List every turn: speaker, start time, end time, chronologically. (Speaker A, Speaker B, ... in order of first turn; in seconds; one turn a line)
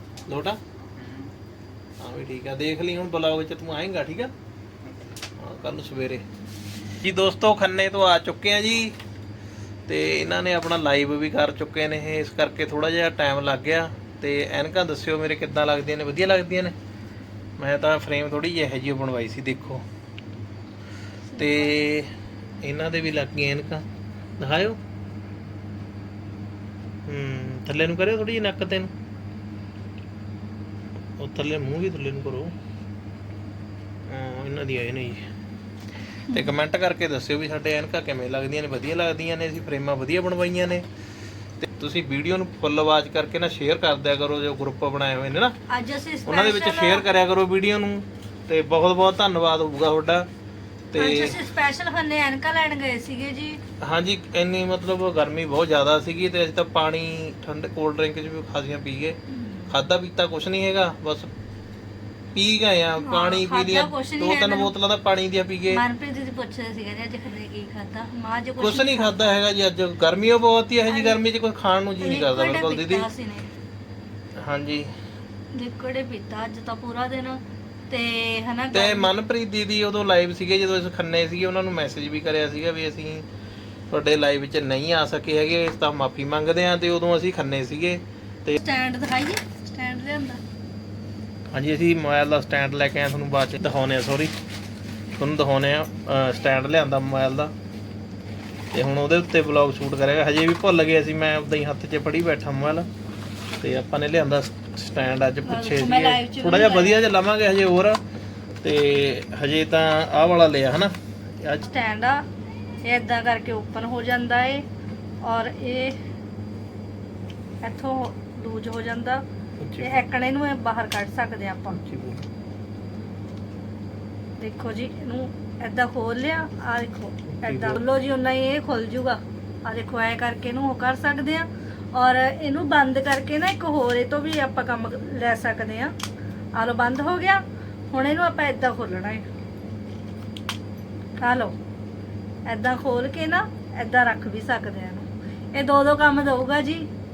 Speaker A: 0.3-0.6
Speaker A: 2.0-4.3
Speaker A: 5.4-6.2
Speaker A: 7.0-9.0
Speaker A: 9.9-16.7
Speaker A: 17.6-19.8
Speaker A: 21.3-22.1
Speaker A: 22.6-23.8
Speaker A: 24.4-24.8
Speaker A: 27.1-28.9
Speaker A: 31.2-32.5
Speaker A: 34.1-35.3
Speaker A: 36.3-40.8
Speaker A: 41.6-45.5
Speaker B: 45.7-47.0
Speaker A: 46.3-50.3
Speaker A: 50.9-51.4
Speaker B: 51.0-53.6
Speaker A: 53.8-59.2
Speaker B: 59.3-59.7
Speaker A: 59.7-61.3
Speaker A: 62.3-65.8
Speaker B: 63.0-64.7
Speaker B: 65.7-69.4
Speaker A: 68.6-73.1
Speaker B: 70.9-71.2
Speaker B: 72.0-73.5
Speaker A: 74.4-74.9
Speaker B: 75.5-79.1
Speaker A: 78.7-83.2
Speaker A: 83.9-88.6
Speaker B: 88.5-90.4
Speaker A: 91.5-94.3
Speaker A: 95.2-97.5
Speaker A: 98.7-102.9
Speaker A: 103.6-108.0
Speaker B: 105.4-107.1
Speaker A: 108.6-111.6
Speaker B: 111.6-112.2
Speaker B: 112.8-114.6
Speaker B: 115.2-116.0
Speaker B: 117.6-119.2
Speaker A: 119.6-120.0
Speaker B: 119.8-121.8
Speaker A: 121.7-122.3
Speaker B: 124.4-135.9
Speaker A: 127.4-127.8
Speaker B: 136.5-139.2
Speaker B: 141.2-141.5
Speaker B: 142.4-146.8